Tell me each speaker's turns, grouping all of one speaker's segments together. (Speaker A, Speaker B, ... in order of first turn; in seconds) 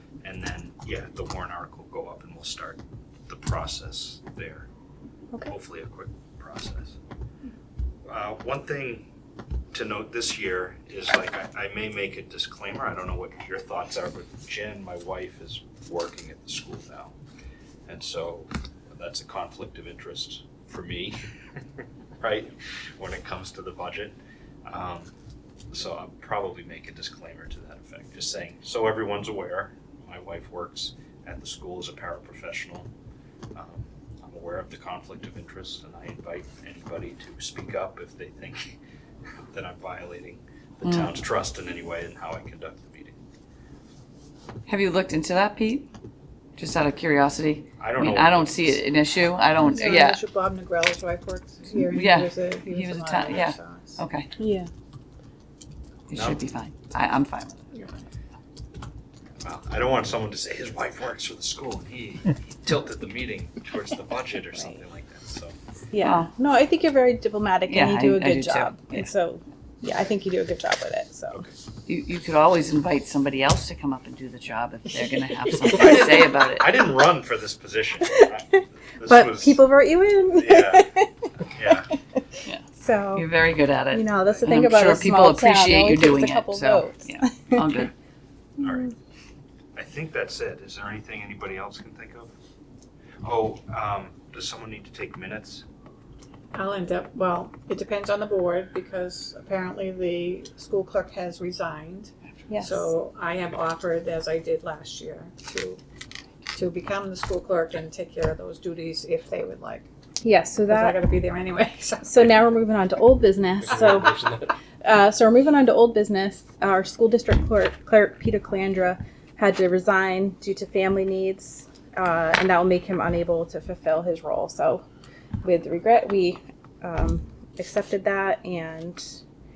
Speaker A: 0.2-4.7, 5.5-7.0, 8.1-9.1, 9.7-17.1, 17.9-21.2, 22.2-25.1, 25.7-32.9, 33.5-38.7, 39.5-43.2, 47.8-48.8, 56.1-56.4, 59.4-65.6, 71.3-71.6, 75.7-79.6, 80.3-81.9, 88.6-88.9, 89.8-92.3, 93.2-95.6
Speaker B: 40.8-41.1, 44.7-45.9, 46.6-50.2, 51.9-54.3, 56.1-57.7, 66.0-66.3, 67.7-69.1, 71.9-76.7, 82.5-87.9
Speaker C: 49.7-54.0, 96.5-105.8, 106.5-109.9, 110.7-112.3
Speaker D: 54.4-54.7, 65.9-71.4, 78.1-81.1, 82.7-83.3, 83.9-87.7, 102.5-102.9, 110.2-111.0, 112.0-114.2, 114.8-124.8, 125.4-129.2